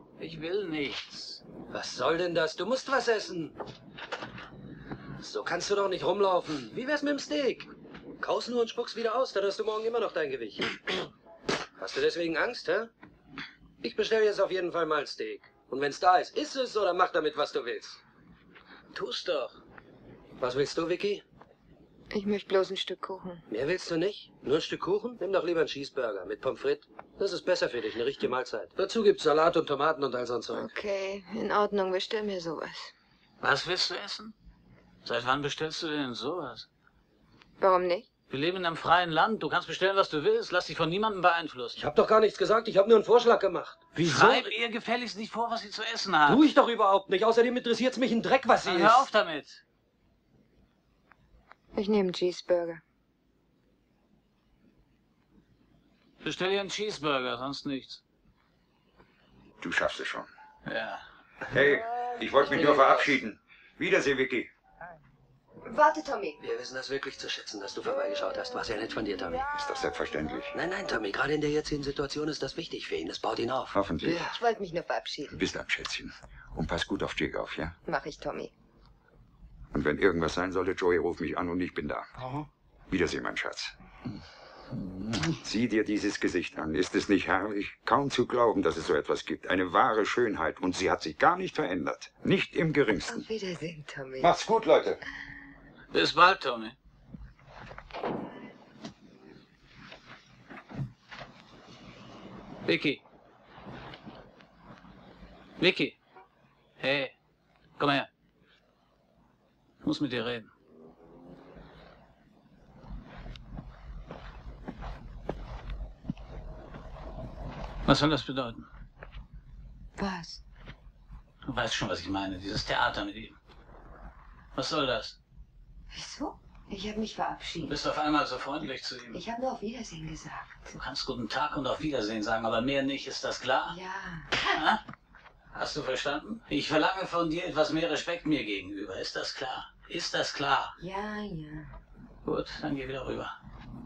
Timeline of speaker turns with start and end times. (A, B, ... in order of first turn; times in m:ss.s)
0:00.2-0:01.4 A
0:01.7-0:03.6 B
0:05.2-0:07.7 B
0:08.2-0:11.0 B
0:11.8-0:12.9 B
0:13.8-0:18.0 B
0:18.9-0:19.6 A
0:20.4-0:21.2 B
0:22.1-0:23.4 C
0:23.5-0:30.7 B
0:30.5-0:32.9 C
0:33.4-0:34.3 A
0:35.0-0:36.7 A
0:37.6-0:38.1 C
0:38.3-0:41.8 A
0:41.8-0:44.5 B
0:44.0-0:46.4 A
0:46.3-0:49.1 B
0:48.6-0:49.6 A
0:51.8-0:52.8 C
0:56.2-0:58.0 A
0:59.6-1:00.3 D
1:00.7-1:01.0 A
1:01.5-1:04.5 D
1:02.6-1:03.1 B
1:05.6-1:06.4 C
1:06.4-1:09.5 B
1:09.5-1:10.6 D
1:10.5-1:14.3 B
1:13.7-1:14.3 D
1:14.2-1:15.4 C
1:15.3-1:17.8 D
1:17.9-1:18.5 C
1:19.7-1:22.1 D
1:22.9-1:23.8 D
1:25.1-1:33.3 D
1:33.1-1:34.3 C
1:34.2-1:35.0 D
1:35.9-1:36.8 A
1:42.7-1:43.0 A
1:45.6-1:46.0 A
1:46.8-1:47.1 A
1:47.8-1:48.1 A
1:49.8-1:50.5 A
1:57.9-1:58.7 A
2:00.0-2:00.4 C
2:01.4-2:03.4 A
2:04.6-2:05.2 A
2:05.9-2:07.8 C
2:07.6-2:09.2 A
2:09.1-2:10.8 C
2:10.7-2:13.8 A
2:13.7-2:14.6 C
2:14.5-2:14.8 A
2:15.5-2:20.8 A
2:20.8-2:21.8 C
2:22.2-2:23.4 A